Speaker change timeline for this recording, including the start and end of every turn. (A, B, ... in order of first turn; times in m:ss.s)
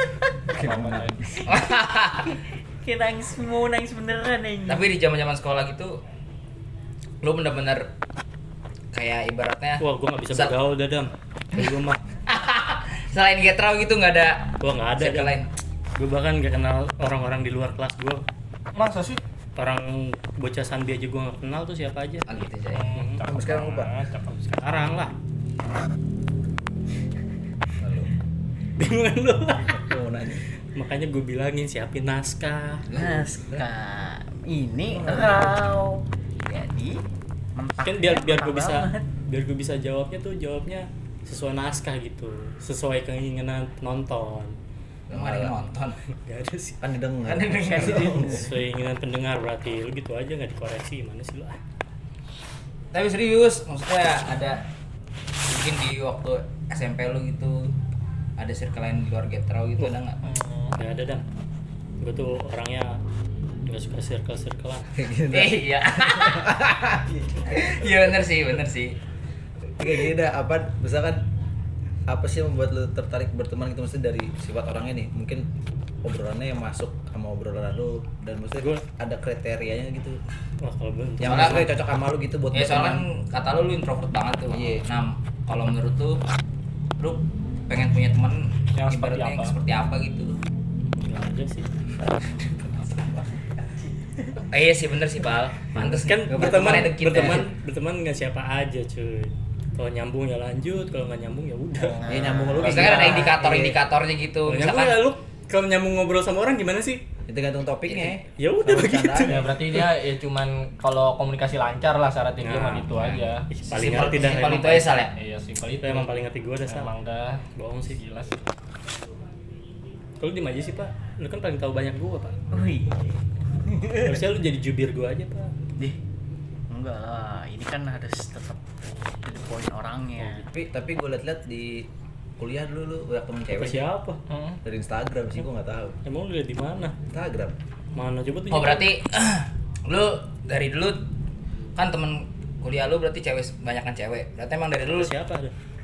0:00.5-0:01.5 A
0:00.6-0:01.2 B
0:01.4-0:02.3 C
0:02.3-0:04.9 D
0:04.6-0:06.0 C
0:07.2-0:07.9 C
0:08.9-0:10.6 C
0:09.8-0:12.0 E
0:12.3-0:15.5 C
0:14.6-0:18.2 E
0:18.8-0:19.2 B
0:19.6-0:22.2 E
0:22.3-0:22.9 C
0:22.7-0:24.3 B
0:22.9-0:23.2 E
0:23.2-0:23.9 A
0:24.2-0:25.1 E
0:27.8-0:28.1 A
0:28.8-0:29.9 E
0:29.7-0:30.4 A
0:30.7-0:32.9 E
0:32.9-0:37.0 D
0:32.9-0:33.6 A
0:34.8-0:35.6 A
0:37.6-0:39.0 D
0:37.8-0:44.6 E
0:45.1-0:45.6 A
0:45.1-0:46.0 C
0:46.1-0:46.8 E
0:46.8-0:48.5 A
0:47.2-0:48.3 C
0:47.7-0:48.4 D
0:48.2-0:51.6 E
0:52.9-0:54.6 C
0:55.4-0:57.7 C
0:58.4-1:00.2 C
1:00.2-1:00.8 B
1:00.7-1:01.2 E
1:02.0-1:03.0 E
1:03.7-1:04.9 E
1:04.9-1:08.2 A
1:05.3-1:06.5 C
1:07.5-1:09.0 C
1:09.8-1:11.2 A
1:12.1-1:15.4 A
1:16.0-1:20.2 A
1:18.6-1:18.8 E
1:20.6-1:21.7 E
1:21.2-1:23.0 A
1:21.2-1:21.6 C
1:22.5-1:26.2 C
1:24.5-1:24.8 A
1:27.0-1:30.4 C
1:28.7-1:29.5 B
1:30.9-1:31.7 E
1:32.4-1:33.5 A
1:34.5-1:37.5 C
1:35.7-1:37.5 A
1:35.9-1:43.2 E
1:41.8-1:42.0 B
1:42.0-1:42.3 D
1:42.1-1:43.8 A
1:42.6-1:45.0 C
1:44.4-1:47.0 E
1:47.3-1:49.5 A
1:47.9-1:48.2 C
1:48.4-1:49.9 E
1:49.2-1:53.5 B
1:52.4-1:55.1 E
1:53.0-1:55.1 C
1:55.1-1:56.1 B
1:55.8-1:56.9 E
1:56.7-1:58.4 B
1:57.6-1:58.0 E
2:00.2-2:02.4 E
2:02.5-2:04.2 D
2:04.0-2:05.5 E
2:06.7-2:10.4 D
2:10.2-2:10.5 E
2:10.5-2:13.8 A
2:13.5-2:14.2 E
2:14.3-2:14.6 B
2:14.6-2:16.0 A
2:16.0-2:16.9 E
2:17.1-2:17.6 A
2:17.9-2:18.9 E
2:18.5-2:21.0 C
2:21.8-2:25.1 C
2:24.9-2:25.5 E